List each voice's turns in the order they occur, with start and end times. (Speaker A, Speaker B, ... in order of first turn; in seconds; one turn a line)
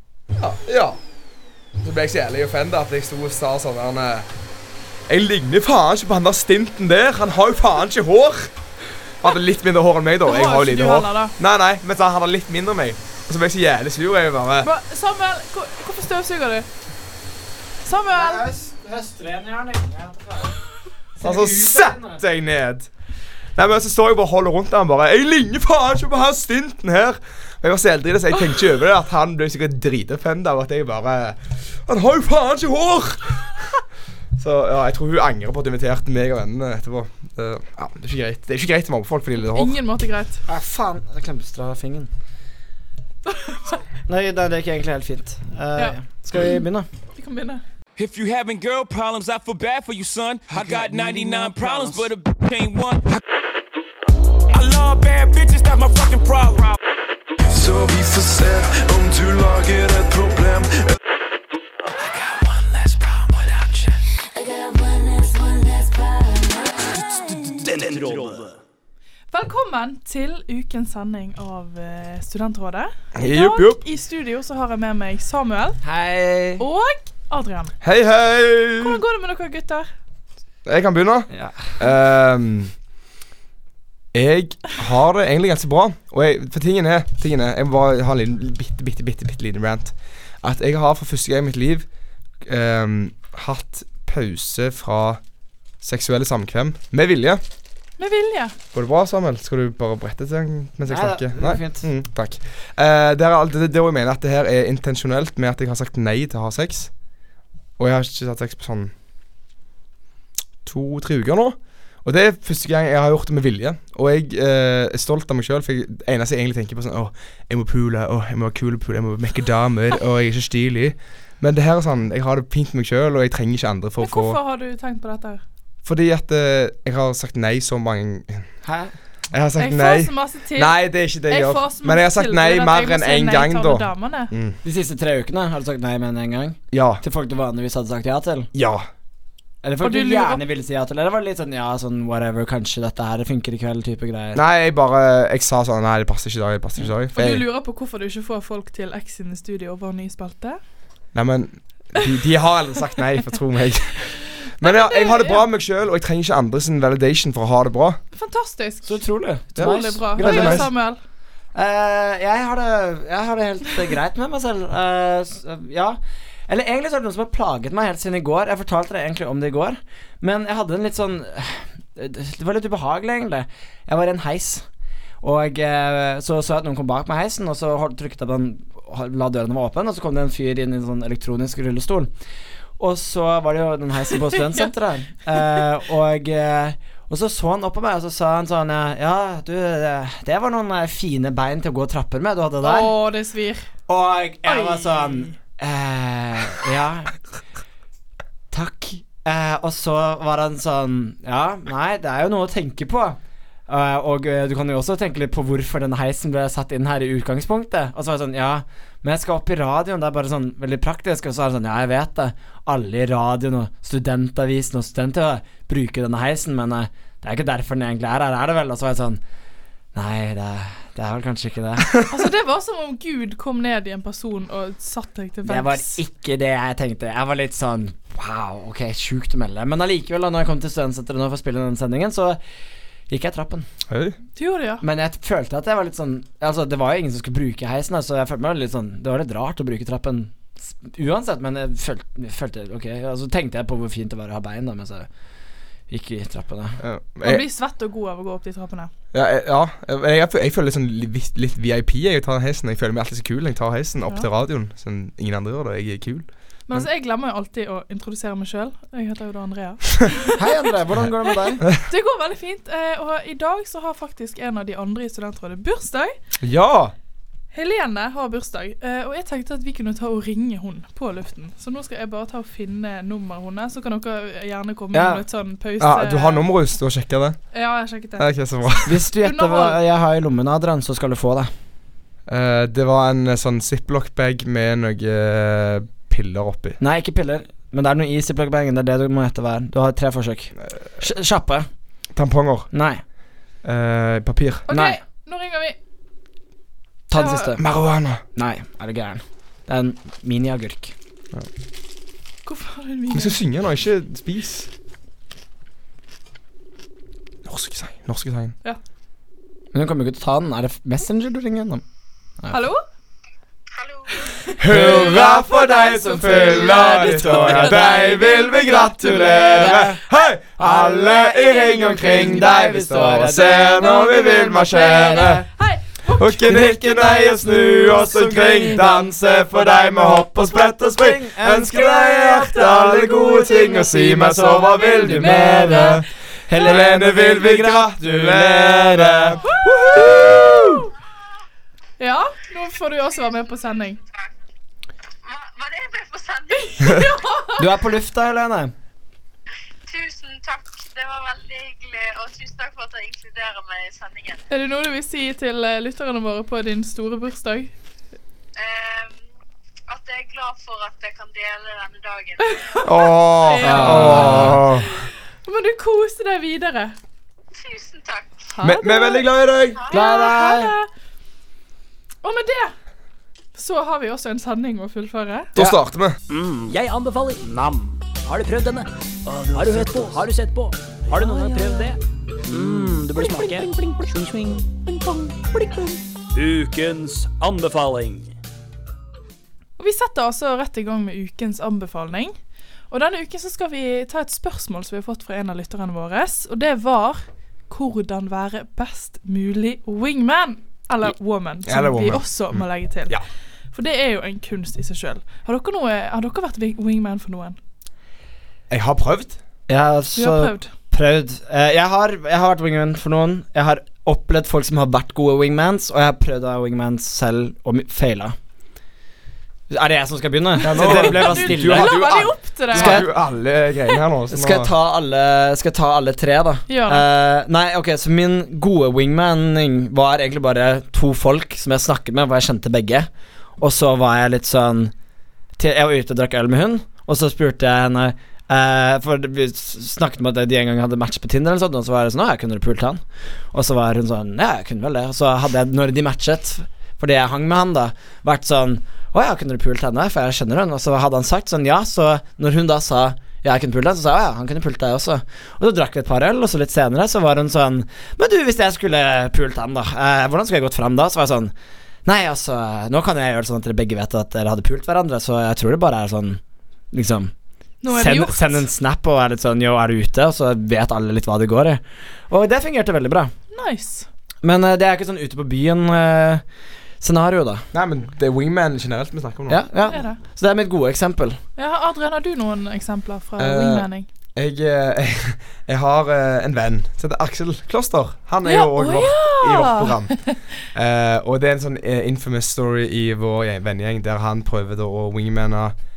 Speaker A: 0.4-1.0
Speaker A: 1.8-4.3
Speaker A: 5.1-8.5
Speaker A: 9.2-14.7
Speaker B: 10.2-11.3
Speaker B: 14.6-16.7
Speaker B: 17.8-18.5
Speaker C: 18.1-20.6
Speaker C: 21.1-22.2
Speaker A: 21.2-22.9
Speaker A: 23.6-33.8
Speaker A: 34.4-39.8
Speaker B: 39.4-40.4
Speaker C: 40.5-42.1
Speaker B: 43.3-43.7
Speaker C: 44.1-46.9
Speaker B: 47.1-47.6
Speaker D: 48.0-53.2
Speaker C: 50.6-52.0
Speaker D: 54.5-56.8
Speaker D: 57.5-58.3
Speaker E: 57.7-60.4
Speaker D: 62.9-63.2
Speaker F: 67.6-68.5
Speaker B: 69.3-75.8
Speaker A: 73.2-73.8
Speaker C: 75.8-76.6
Speaker B: 76.6-77.7
Speaker A: 77.8-79.0
Speaker B: 78.8-79.9
Speaker A: 80.7-82.7
Speaker C: 81.3-81.7
Speaker A: 84.1-91.8
Speaker A: 92.4-95.2
Speaker A: 95.8-97.4
Speaker B: 98.0-98.5
Speaker A: 98.7-106.9
Speaker C: 100.8-101.8
Speaker A: 107.8-108.9
Speaker A: 110.6-124.4
Speaker B: 124.0-125.4
Speaker A: 125.8-128.5
Speaker C: 128.6-128.9
Speaker A: 129.3-134.6
Speaker B: 129.6-134.3
Speaker C: 134.6-138.5
Speaker A: 136.7-137.0
Speaker A: 138.5-138.8
Speaker C: 139.6-144.4
Speaker B: 139.8-140.4
Speaker A: 144.3-147.4
Speaker B: 147.1-150.6
Speaker A: 151.1-158.0
Speaker B: 154.6-155.4
Speaker B: 158.1-161.0
Speaker C: 158.8-160.7
Speaker A: 159.5-160.7
Speaker C: 161.5-174.7
Speaker C: 175.2-182.1
Speaker C: 182.8-192.9
Speaker B: 192.6-193.7
Speaker C: 193.9-197.1
Speaker B: 194.4-195.3
Speaker C: 198.5-219.2
Speaker C: 219.9-222.0
Speaker B: 222.1-226.0
Speaker C: 225.4-232.4
Speaker C: 233.1-233.7
Speaker A: 233.9-234.2
Speaker B: 234.3-234.8
Speaker C: 234.8-245.1
Speaker C: 245.9-246.8
Speaker A: 246.8-247.4
Speaker B: 247.2-248.9
Speaker A: 249.1-256.8
Speaker B: 256.7-260.7
Speaker C: 260.4-261.6
Speaker B: 261.3-266.1
Speaker A: 266.4-266.9
Speaker B: 267.5-276.4
Speaker C: 274.9-275.2
Speaker A: 275.8-277.4
Speaker B: 277.5-279.8
Speaker A: 278.2-278.9
Speaker C: 278.9-281.5
Speaker A: 282.3-286.8
Speaker C: 286.8-291.7
Speaker A: 292.1-292.7
Speaker C: 292.7-293.0
Speaker A: 293.6-294.6
Speaker B: 294.7-295.8
Speaker C: 294.7-295.0
Speaker C: 297.1-297.6
Speaker B: 297.1-297.6
Speaker A: 297.6-298.2
Speaker C: 298.3-300.9
Speaker B: 302.4-303.4
Speaker A: 303.1-304.7
Speaker A: 307.4-308.5
Speaker C: 309.7-311.8
Speaker B: 312.5-312.8
Speaker G: 313.7-314.3
Speaker B: 314.2-320.0
Speaker A: 314.6-325.4
Speaker C: 314.7-315.2
Speaker C: 316.3-318.2
Speaker C: 319.1-320.0
Speaker C: 320.6-325.4
Speaker B: 324.7-326.6
Speaker A: 326.1-340.8
Speaker C: 326.5-340.7
Speaker B: 334.9-336.0
Speaker B: 339.4-340.9
Speaker B: 342.0-344.0
Speaker G: 344.1-344.3
Speaker G: 345.2-347.3
Speaker B: 346.7-347.7
Speaker C: 347.6-348.7
Speaker G: 349.9-354.4
Speaker B: 354.5-357.7
Speaker G: 358.6-359.2
Speaker G: 359.9-362.8
Speaker B: 362.4-366.9
Speaker A: 362.8-365.0
Speaker C: 363.6-364.6
Speaker G: 367.5-368.5
Speaker B: 368.5-369.2
Speaker A: 368.6-369.8
Speaker G: 369.7-370.1
Speaker C: 369.9-370.8
Speaker B: 369.9-370.9
Speaker B: 372.2-372.7
Speaker B: 373.5-375.5
Speaker A: 375.6-376.2
Speaker F: 376.3-388.3
Speaker B: 389.8-392.3
Speaker B: 392.9-403.2
Speaker A: 401.6-403.2
Speaker B: 403.7-407.6
Speaker A: 408.7-409.4
Speaker C: 409.7-418.4
Speaker B: 410.1-410.7
Speaker C: 419.7-422.0
Speaker A: 420.6-424.7
Speaker B: 420.7-423.1
Speaker C: 422.7-423.1
Speaker C: 424.3-434.9
Speaker B: 426.7-427.0
Speaker C: 435.6-461.5
Speaker C: 462.1-466.4
Speaker C: 466.9-467.3
Speaker B: 467.8-468.6
Speaker C: 467.9-473.3
Speaker B: 473.5-474.1
Speaker C: 474.4-476.4
Speaker C: 477.0-477.6
Speaker A: 477.7-479.6
Speaker C: 479.5-481.4
Speaker B: 479.9-480.2
Speaker B: 481.6-484.1
Speaker A: 483.4-490.2
Speaker B: 488.4-490.3
Speaker A: 490.7-495.7